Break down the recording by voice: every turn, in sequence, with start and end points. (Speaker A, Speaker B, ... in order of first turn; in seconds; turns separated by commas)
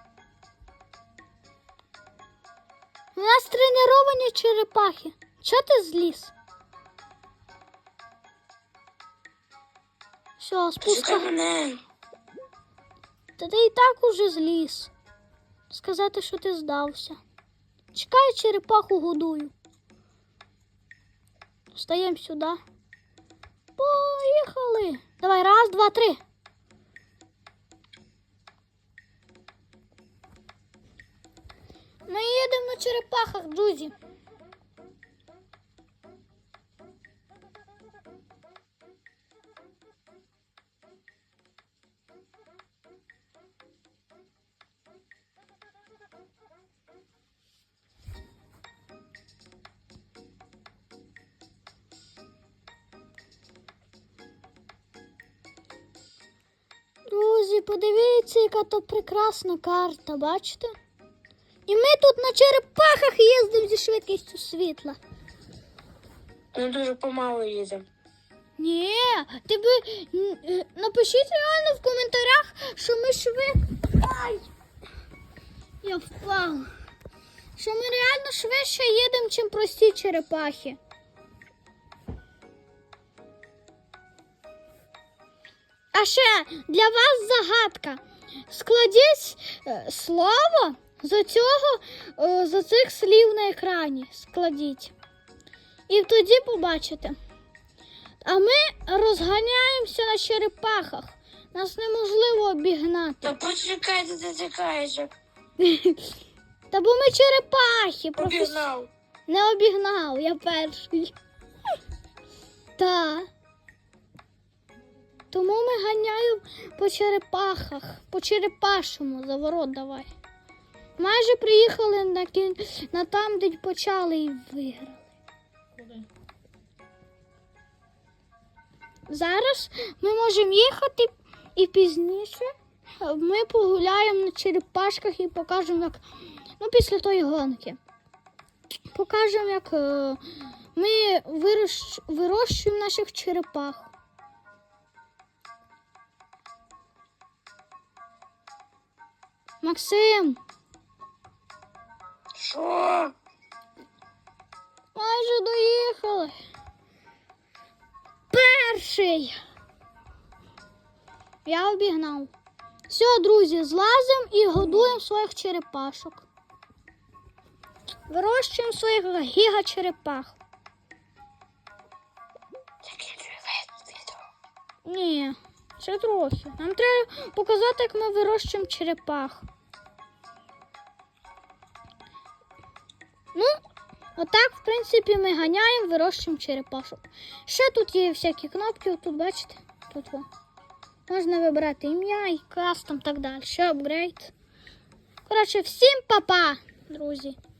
Speaker A: 3.1-6.3, Speaker A: 10.4-11.3, Speaker B: 10.8-11.8, Speaker A: 13.4-14.9, Speaker A: 15.7-17.2, Speaker A: 17.9-19.5, Speaker A: 21.7-22.6, Speaker A: 23.8-26.2, Speaker A: 32.0-33.9, Speaker A: 57.1-60.7, Speaker A: 61.6-65.0, Speaker B: 66.5-67.8, Speaker A: 68.6-74.5, Speaker A: 75.8-76.7, Speaker A: 77.6-80.8, Speaker A: 85.9-94.9, Speaker A: 95.9-97.2, Speaker A: 98.2-103.3, Speaker B: 103.2-105.1, Speaker A: 105.6-106.1, Speaker A: 106.7-108.6, Speaker B: 108.2-108.9, Speaker A: 109.3-111.1, Speaker A: 112.8-113.3, Speaker A: 115.3-120.1, Speaker A: 121.0-125.1, Speaker A: 129.1-136.0, Speaker A: 136.6-137.8, Speaker A: 138.9-143.9, Speaker A: 149.6-150.4, Speaker B: 152.3-153.1, Speaker A: 154.9-156.3, Speaker A: 158.3-159.3, Speaker A: 161.4-162.3, Speaker A: 162.9-166.2, Speaker A: 168.1-170.4, Speaker B: 172.8-174.1, Speaker A: 174.8-179.4, Speaker A: 183.3-183.6, Speaker A: 184.2-190.2, Speaker A: 191.1-194.3, Speaker A: 195.2-197.3